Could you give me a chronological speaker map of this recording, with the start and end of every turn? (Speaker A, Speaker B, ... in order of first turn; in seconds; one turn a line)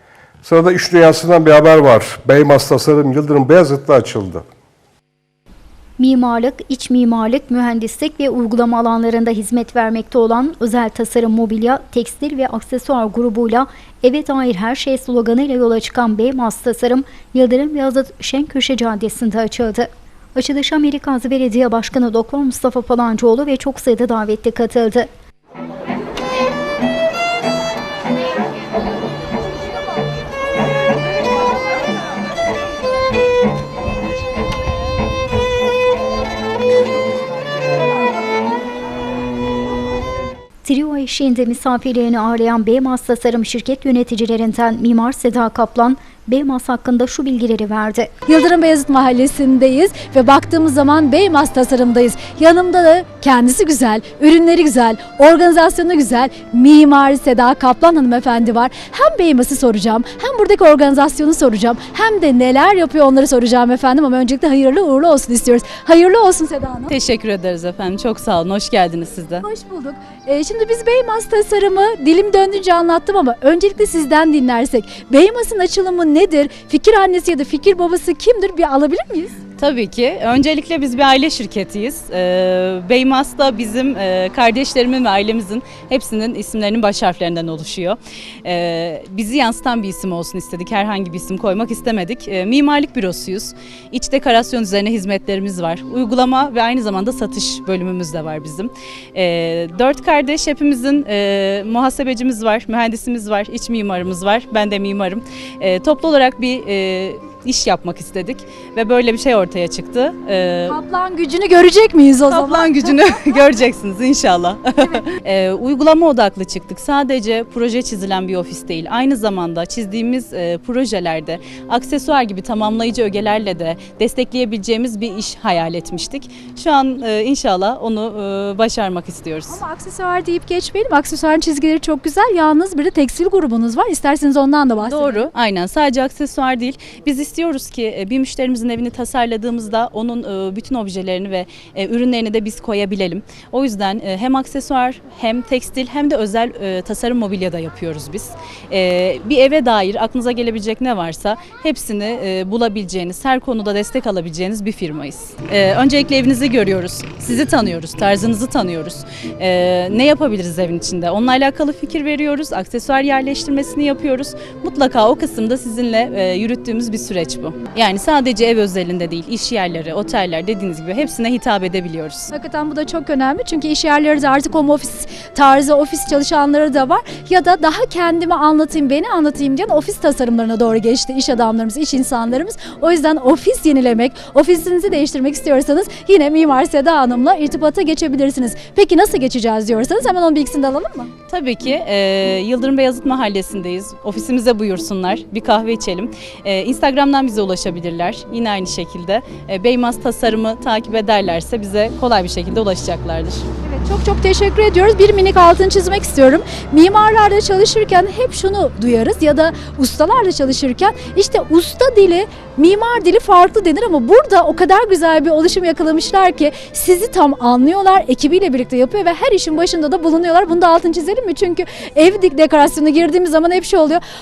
Speaker A: 0.4-4.4
Speaker B: 6.0-25.1
Speaker B: 40.6-48.1
Speaker C: 48.3-66.9
Speaker D: 66.9-69.5
Speaker C: 69.4-79.4
Speaker D: 79.6-110.8
Speaker C: 110.7-113.4
Speaker D: 112.3-129.6
Speaker C: 129.5-135.2
Speaker D: 134.8-172.3
Speaker C: 172.3-191.1
Speaker D: 191.3-203.5
Speaker C: 203.6-224.0